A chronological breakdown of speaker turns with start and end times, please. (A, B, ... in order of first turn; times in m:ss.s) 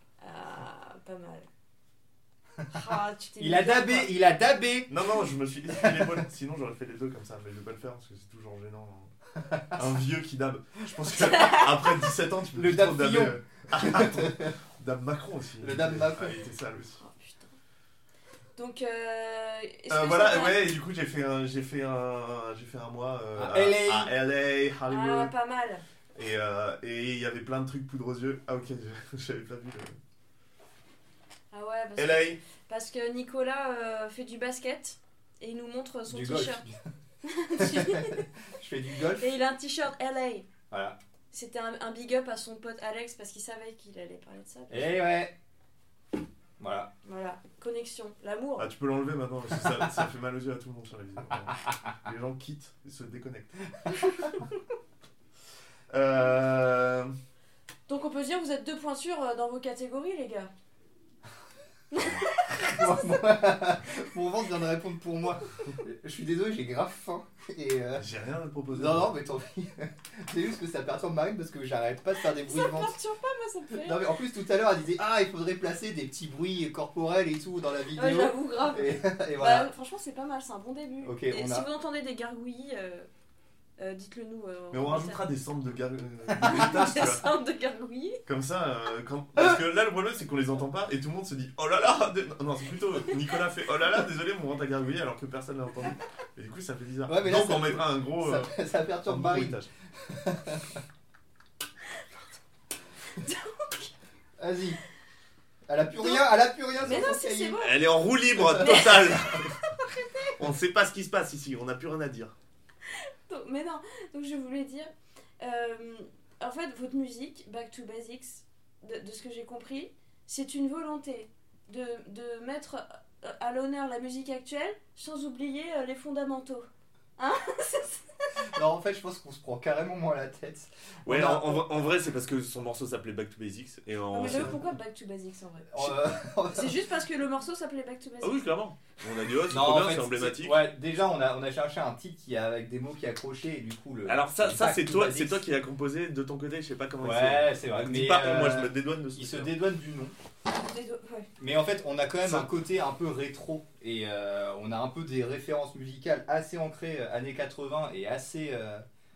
0:00.2-0:01.5 A
0:02.7-0:04.1 A
0:03.4-0:04.9 B
0:04.9-0:09.1 C
0:05.7-0:06.2 B
0:09.5-0:09.8 B
0:09.7-0:17.0 C
0:11.2-0:12.0 A
0:12.5-0:14.5 B
0:15.6-0:16.4 B
0:17.0-0:17.5 A
0:18.6-0:20.7 A
0:19.9-0:25.3 C
0:23.4-0:24.1 B
0:24.9-0:25.8 A
0:26.2-0:30.0 C
0:31.5-0:36.6 A
0:32.0-0:32.4 C
0:36.1-0:36.8 B
0:37.2-0:38.3 A
0:37.5-0:39.3 B
0:39.2-0:40.5 A
0:40.7-0:41.0 B
0:41.3-0:45.0 A
0:44.7-0:45.3 B
0:46.6-0:46.9 B
0:47.0-0:48.7 A
0:48.6-0:53.5 C
0:55.9-0:57.1 C
0:57.9-1:00.5 A
1:01.9-1:03.2 A
1:02.6-1:08.0 B
1:08.0-1:09.1 C
1:08.7-1:12.9 B
1:12.2-1:14.0 A
1:13.7-1:19.7 B
1:17.9-1:23.1 A
1:21.0-1:21.7 B
1:23.8-1:25.2 A
1:24.7-1:27.3 C
1:26.4-1:28.2 A
1:28.3-1:38.5 C
1:37.1-1:40.8 B
1:39.0-1:39.7 C
1:43.2-1:43.9 A
1:44.4-1:44.8 B
1:45.7-1:47.6 B
1:46.8-1:50.3 A
1:47.6-1:49.5 C
1:48.4-1:49.3 B
1:50.4-1:52.3 C
1:52.9-2:06.6 A
2:07.2-2:08.0 A
2:08.5-2:11.6 B
2:11.0-2:14.7 C
2:14.1-2:15.7 A
2:14.2-2:14.6 B
2:15.7-2:16.7 B
2:16.5-2:18.5 A
2:18.2-2:20.7 C
2:19.5-2:25.4 B
2:24.0-2:29.5 C
2:27.0-2:30.1 B
2:30.5-2:31.3 A
2:31.4-2:38.8 B
2:32.2-2:32.5 C